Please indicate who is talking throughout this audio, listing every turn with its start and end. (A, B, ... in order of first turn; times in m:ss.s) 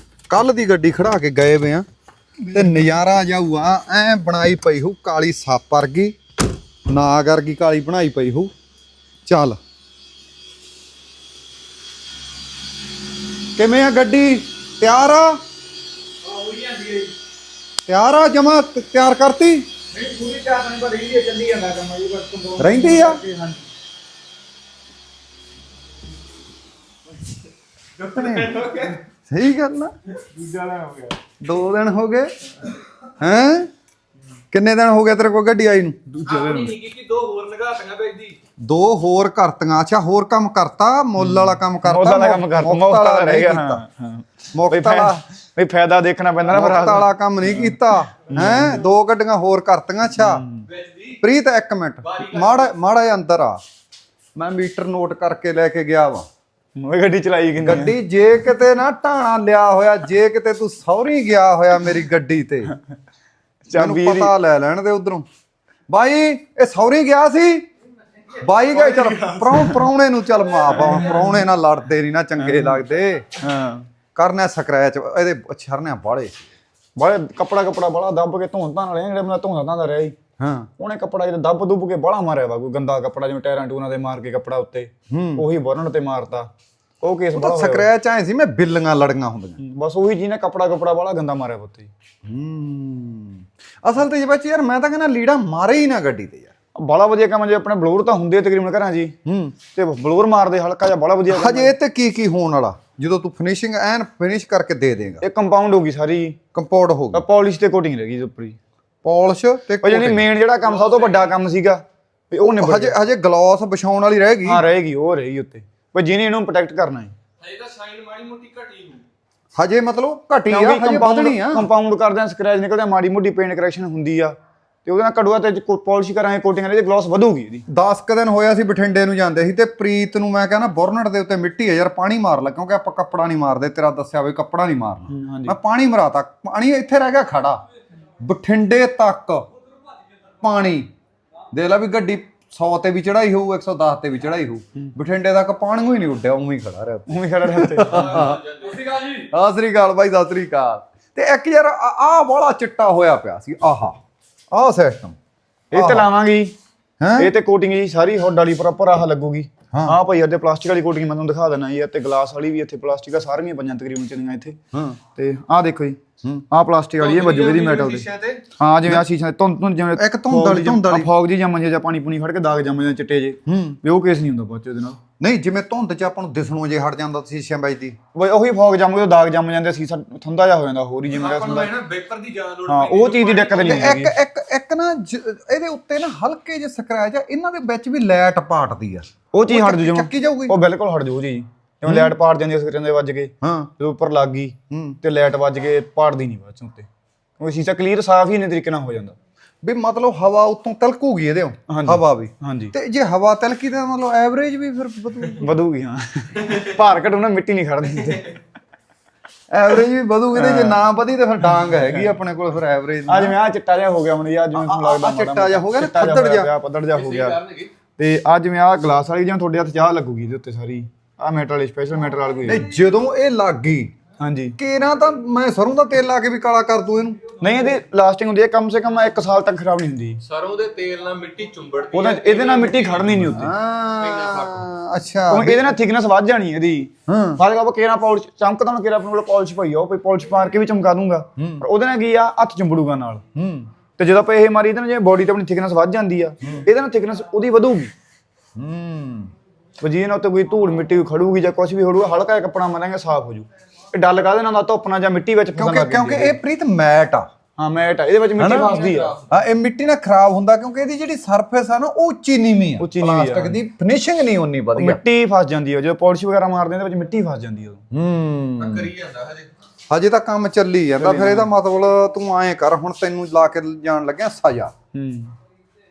0:00.3-0:01.8 A
0:02.5-0:06.2 A
0:06.9-0:08.5 A
0:09.3-0:09.6 A
0:13.5-0:15.4 A
0:16.6-0:17.0 B
0:17.9-0:19.7 A
0:19.9-0:23.7 C
0:22.6-0:23.2 A
0:28.0-0:29.9 A
0:30.2-0:31.2 C
0:31.4-0:32.3 A
0:33.2-0:33.7 A
0:34.5-0:36.0 A
0:36.1-0:36.8 C
0:36.2-0:38.4 B
0:38.6-0:43.8 A
0:41.2-0:48.8 C
0:44.5-0:45.2 A
0:46.5-0:50.4 A
0:50.2-0:50.7 C
0:50.7-0:51.2 B
0:51.2-0:53.6 A
0:52.0-0:52.7 B
0:54.4-0:56.3 A
0:56.8-0:58.0 C
0:57.6-1:02.8 A
1:03.7-1:04.3 C
1:03.7-1:05.3 A
1:05.9-1:07.7 A
1:08.3-1:13.3 A
1:10.7-1:11.3 C
1:12.4-1:12.8 C
1:13.4-1:13.9 C
1:14.2-1:16.5 A
1:17.0-1:20.2 C
1:20.4-1:20.7 A
1:20.8-1:26.5 C
1:25.1-1:25.4 A
1:27.0-1:27.9 C
1:27.4-1:29.6 A
1:29.6-1:31.9 C
1:32.2-1:36.5 A
1:36.8-1:39.2 C
1:39.2-1:39.6 A
1:39.7-1:41.8 C
1:41.3-1:45.2 A
1:45.2-1:46.4 C
1:46.5-1:47.2 A
1:47.1-1:48.6 C
1:49.0-1:50.3 A
1:49.8-1:53.0 C
1:52.4-1:54.6 A
1:54.4-1:57.1 C
1:57.4-1:59.0 B
1:59.6-2:01.7 A
2:00.5-2:07.6 C
2:07.7-2:17.6 A
2:15.1-2:15.6 C
2:18.2-2:19.5 A
2:20.4-2:20.9 A
2:21.5-2:34.0 A
2:27.1-2:28.3 C
2:28.0-2:29.1 B
2:34.5-2:35.2 A
2:35.7-2:36.6 C
2:35.7-2:36.1 A
2:37.0-2:37.3 A
2:37.2-2:44.6 C
2:39.7-2:40.0 A
2:44.7-2:45.0 A
2:45.2-2:46.0 C
2:46.5-2:55.0 C
2:47.0-2:48.4 B
2:50.0-2:51.1 A
2:53.5-2:53.8 A
2:55.2-2:58.0 A
2:58.1-3:01.7 C
3:01.1-3:03.9 B
3:02.7-3:04.1 C
3:03.6-3:10.6 A
3:09.3-3:16.9 C
3:13.4-3:13.7 A
3:14.7-3:15.0 A
3:17.4-3:19.2 C
3:19.6-3:25.5 A
3:21.7-3:22.7 C
3:25.3-3:28.4 C
3:29.5-3:33.4 A
3:30.3-3:30.8 C
3:31.6-3:32.1 C
3:33.1-3:37.4 C
3:34.6-3:36.5 A
3:37.0-3:37.7 B
3:38.0-3:42.7 C
3:42.5-3:44.0 A
3:44.2-3:44.6 C
3:44.6-3:47.2 A
3:47.4-3:50.2 C
3:50.2-3:53.2 B
3:51.9-3:53.5 C
3:53.2-3:55.8 A
3:54.0-3:54.7 B
3:55.3-4:03.2 C
3:57.1-3:57.4 A
4:01.4-4:01.6 A
4:03.4-4:03.7 A
4:04.0-4:07.9 C
4:08.6-4:09.3 A
4:09.8-4:16.4 C
4:15.6-4:17.3 A
4:17.6-4:19.2 C
4:18.4-4:18.8 A
4:18.6-4:19.3 B
4:19.3-4:25.0 A
4:22.8-4:23.6 C
4:24.8-4:27.8 C
4:27.9-4:28.9 A
4:28.6-4:29.5 B
4:29.9-4:34.7 A
4:31.0-4:31.5 C
4:34.9-4:35.4 C